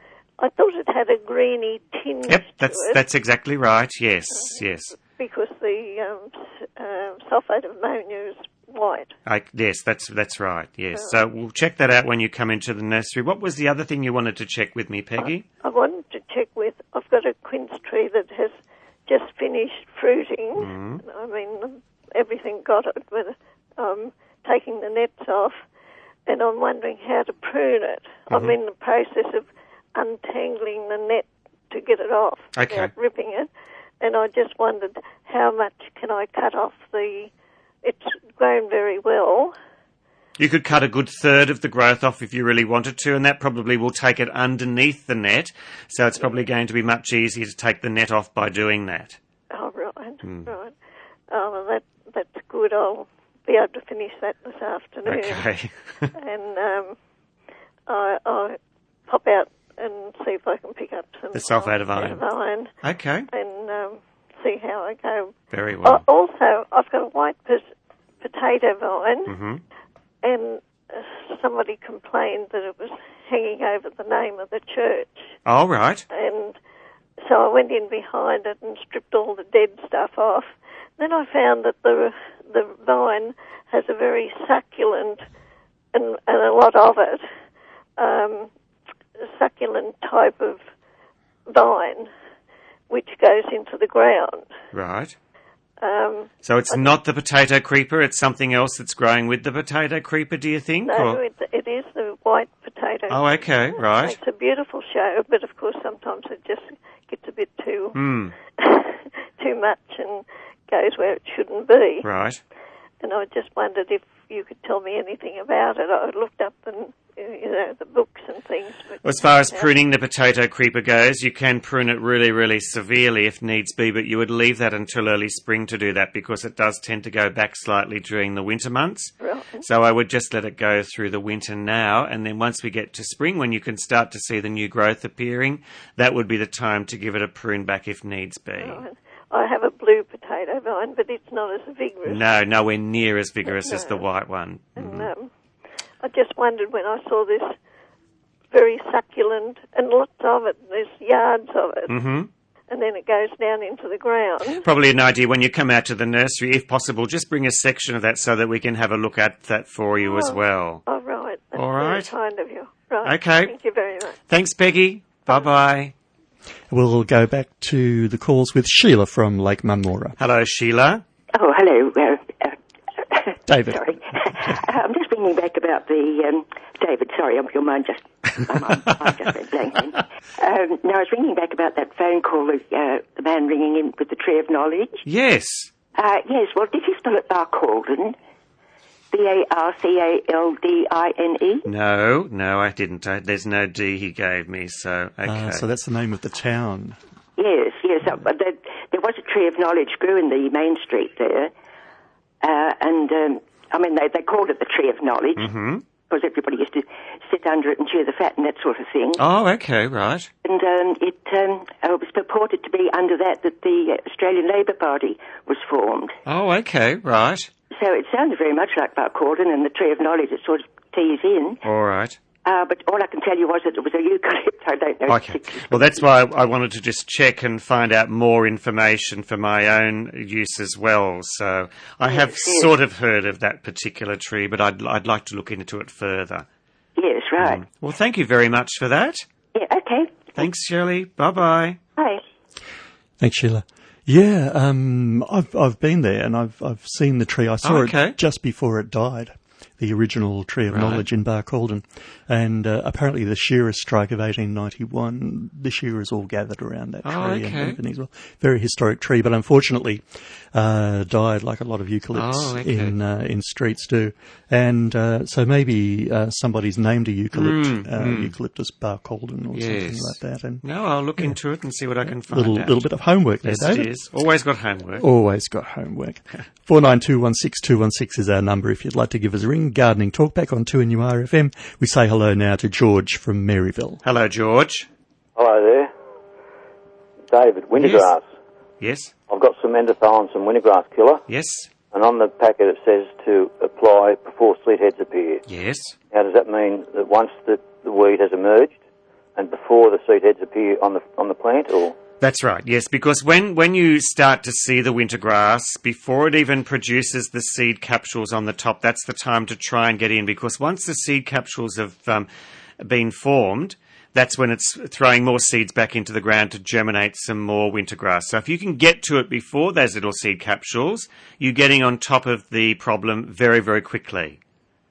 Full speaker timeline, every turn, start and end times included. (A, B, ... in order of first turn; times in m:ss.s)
0:00.4-0:03.0 A
0:02.3-0:05.0 B
0:04.3-0:09.1 A
0:09.3-0:15.4 B
0:15.2-0:25.6 A
0:20.6-0:21.0 B
0:26.3-0:33.5 A
0:28.3-0:28.6 B
0:32.6-0:32.9 B
0:34.0-0:37.3 A
0:37.8-0:39.5 A
0:40.4-0:49.2 B
0:49.5-0:50.7 A
0:50.2-0:50.5 B
0:51.3-0:55.4 A
0:55.1-0:56.1 B
0:56.2-0:57.0 A
0:57.9-1:02.7 A
1:01.3-1:02.2 B
1:02.8-1:03.3 B
1:03.3-1:05.3 A
1:05.5-1:06.0 B
1:05.8-1:07.7 A
1:08.2-1:09.3 A
1:09.3-1:09.6 B
1:10.2-1:15.3 A
1:15.5-1:16.0 B
1:16.1-1:16.6 A
1:17.2-1:25.2 A
1:25.9-1:27.2 A
1:28.0-1:28.5 A
1:29.2-1:30.6 A
1:31.5-1:32.1 A
1:32.9-1:34.5 A
1:34.7-1:35.2 B
1:35.8-1:37.0 A
1:36.4-1:41.2 B
1:40.9-1:48.0 A
1:43.1-1:44.2 B
1:47.9-1:48.3 B
1:48.6-1:52.1 A
1:52.0-1:52.4 B
1:53.0-1:59.7 A
1:59.0-2:09.1 B
2:09.2-2:09.6 A
2:09.6-2:18.8 B
2:18.6-2:22.2 A
2:22.1-2:25.1 B
2:23.5-2:24.0 A
2:24.8-2:25.3 A
2:26.0-2:27.6 A
2:28.5-2:31.9 A
2:31.9-2:32.3 B
2:32.7-2:34.6 A
2:34.6-2:40.8 B
2:40.0-2:44.2 A
2:41.6-2:42.1 B
2:43.0-2:43.5 B
2:44.3-2:45.9 B
2:46.7-2:50.2 C
2:50.2-2:51.0 B
2:51.3-3:05.0 D
2:53.5-2:54.0 C
3:05.1-3:05.7 B
3:06.0-3:08.2 D
3:09.1-3:11.6 D
3:11.6-3:15.6 B
3:15.2-3:17.0 C
3:17.4-3:21.5 D
3:22.4-3:25.5 D
3:25.4-3:25.8 B
3:26.0-3:29.2 D
3:29.2-3:30.3 B
3:30.4-3:36.2 D
3:36.3-3:37.5 B
3:37.7-3:41.6 D
3:41.6-3:42.2 B
3:42.4-3:46.0 D
3:45.1-3:56.5 B
3:52.1-3:52.7 D
3:57.0-3:57.6 D
3:57.4-3:59.2 B
3:59.6-4:00.4 D
4:00.4-4:01.8 B
4:02.0-4:02.2 D
4:03.2-4:30.6 C
4:07.6-4:08.2 B
4:10.7-4:11.0 B
4:17.0-4:17.8 B
4:22.2-4:22.9 B
4:27.3-4:28.3 B
4:29.5-4:32.8 B
4:32.1-4:33.9 C
4:33.4-4:35.0 B
4:35.0-4:44.0 C
4:44.0-4:44.9 B
4:45.4-4:45.9 E
4:47.3-4:48.2 E
4:47.8-4:48.1 B
4:48.8-4:49.1 B
4:49.3-4:51.2 E
4:51.3-4:51.7 B
4:51.9-4:55.4 E
4:55.5-4:56.0 B
4:56.1-4:58.8 E
4:59.4-5:02.0 E
5:02.2-5:12.3 B
5:12.8-5:24.4 B